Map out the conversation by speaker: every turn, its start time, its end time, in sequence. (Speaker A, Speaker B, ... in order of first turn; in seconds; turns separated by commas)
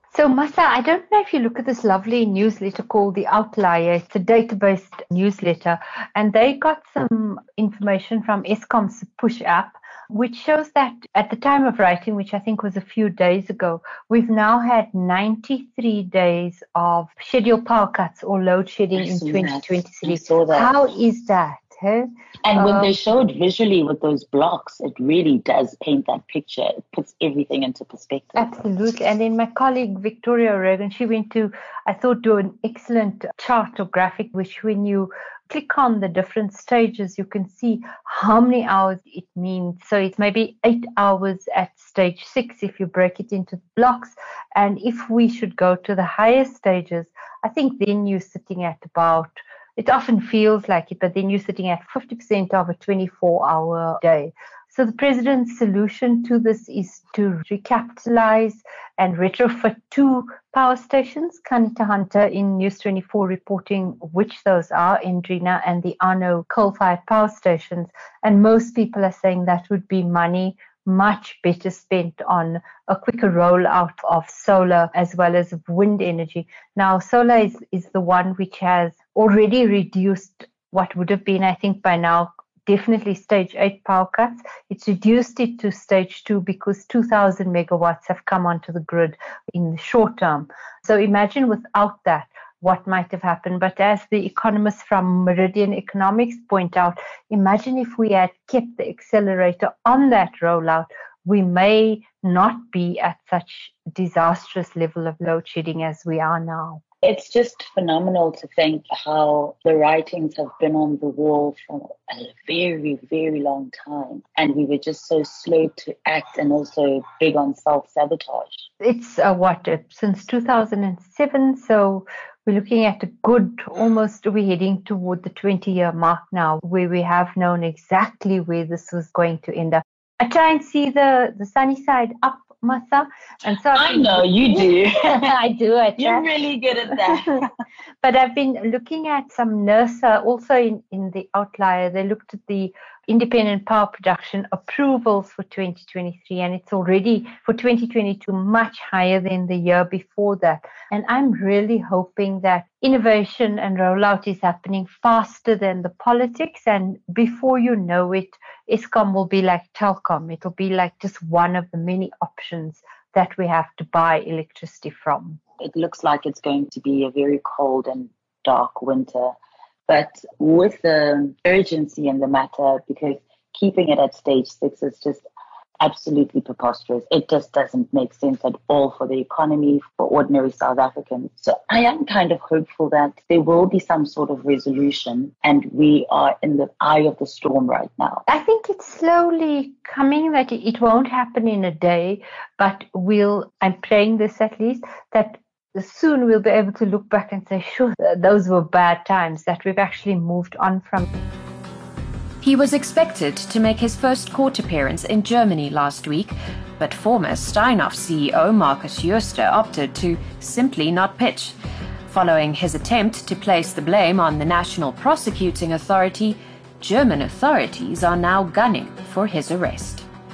Speaker A: 0.1-22.9, Speaker B: 18.9-20.7, Speaker B: 22.4-28.5, Speaker A: 28.4-106.8, Speaker B: 107.0-118.6, Speaker A: 118.8-136.3, Speaker B: 133.7-135.3, Speaker B: 136.0-137.5, Speaker A: 138.0-165.4, Speaker B: 165.6-169.3, Speaker B: 169.9-175.2, Speaker B: 175.8-188.2, Speaker A: 188.3-201.1, Speaker C: 202.4-211.5, Speaker C: 212.1-220.1